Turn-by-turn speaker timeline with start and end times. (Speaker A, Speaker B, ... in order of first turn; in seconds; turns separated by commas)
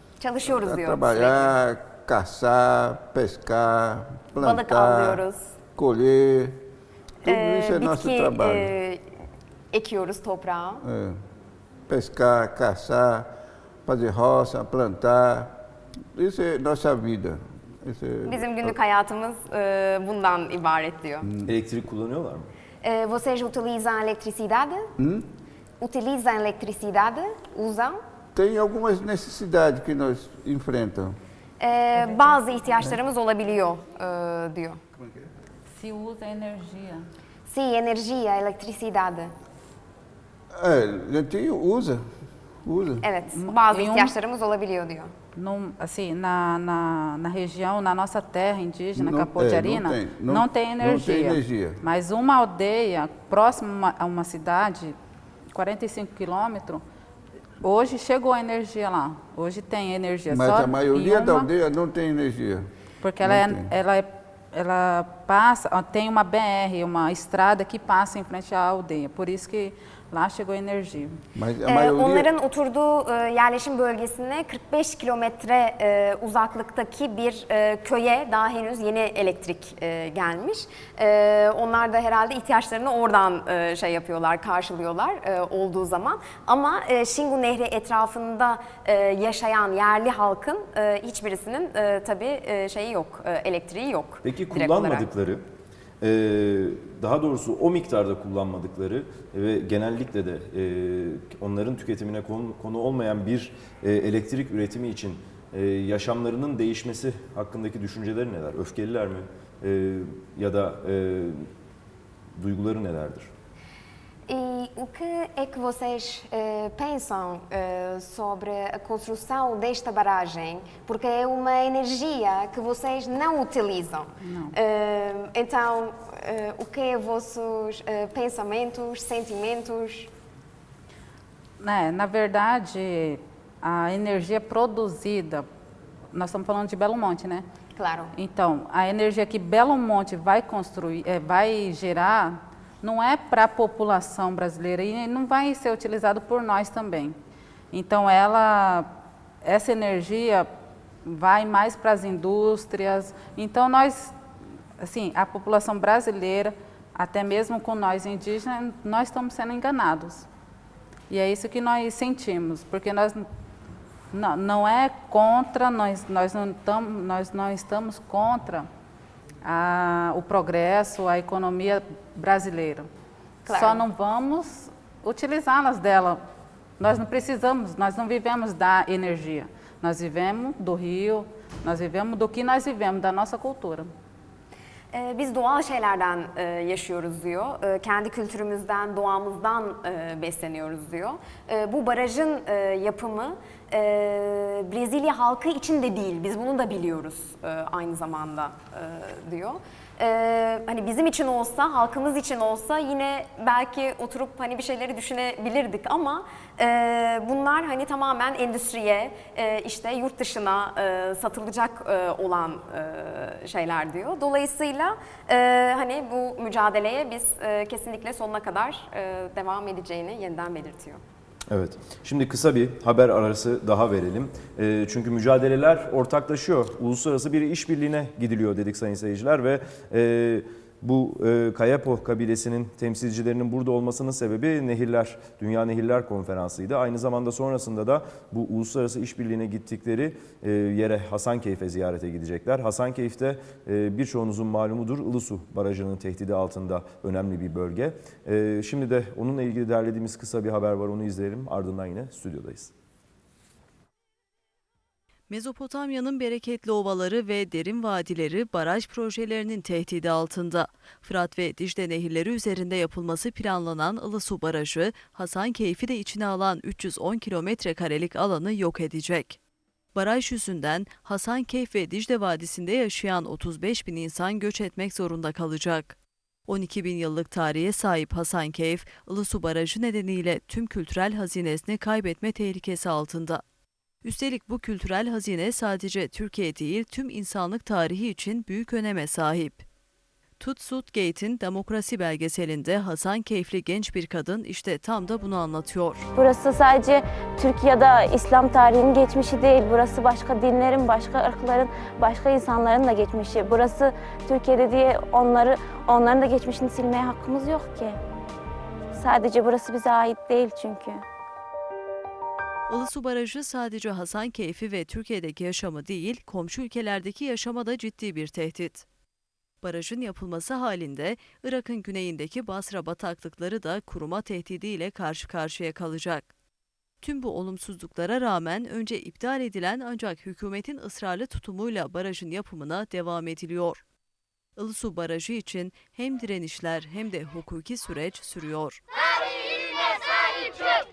Speaker A: 0.2-1.5, Speaker B: 0.4-5.2, Speaker A: 4.4-5.5, Speaker B: 5.7-6.6, Speaker B: 7.2-8.7, Speaker A: 7.2-9.0, Speaker A: 9.7-10.8, Speaker B: 10.8-11.2, Speaker B: 11.9-13.3, Speaker B: 13.8-15.6, Speaker B: 16.1-18.8, Speaker A: 18.2-21.3, Speaker C: 21.4-22.5, Speaker A: 22.8-24.9, Speaker B: 25.0-25.2, Speaker A: 25.8-28.0, Speaker B: 28.3-31.2, Speaker A: 31.6-34.8, Speaker D: 31.9-32.4, Speaker B: 34.9-35.3, Speaker D: 35.8-37.1, Speaker A: 37.5-39.3, Speaker B: 40.5-42.0, Speaker B: 42.6-43.0, Speaker A: 43.0-45.1, Speaker D: 43.3-44.1, Speaker D: 45.3-55.0, Speaker B: 49.0-51.8, Speaker D: 55.5-56.8, Speaker D: 57.6-61.5, Speaker B: 60.3-62.7, Speaker D: 63.0-71.2, Speaker B: 63.2-63.7, Speaker B: 71.3-72.3, Speaker A: 71.7-95.1, Speaker C: 94.2-95.4, Speaker C: 96.0-111.5, Speaker C: 112.3-113.3, Speaker A: 114.3-130.1, Speaker D: 124.2-124.5, Speaker D: 131.6-135.5, Speaker D: 136.1-137.4, Speaker A: 137.7-138.1, Speaker D: 138.1-147.2, Speaker D: 147.7-148.9, Speaker D: 149.4-150.5, Speaker D: 151.0-154.2, Speaker D: 154.8-160.3, Speaker D: 161.1-163.3, Speaker D: 164.1-168.7, Speaker D: 169.4-172.9, Speaker A: 173.4-173.8, Speaker D: 173.5-176.2, Speaker D: 176.8-183.9, Speaker A: 184.9-221.0, Speaker C: 221.5-252.7, Speaker E: 255.3-269.4, Speaker E: 269.9-276.0, Speaker E: 276.5-283.4, Speaker E: 284.0-289.6, Speaker E: 290.4-296.1, Speaker F: 296.1-308.0, Speaker F: 308.9-311.0, Speaker E: 312.7-318.9, Speaker E: 319.6-326.3, Speaker E: 327.0-333.8, Speaker E: 334.6-338.8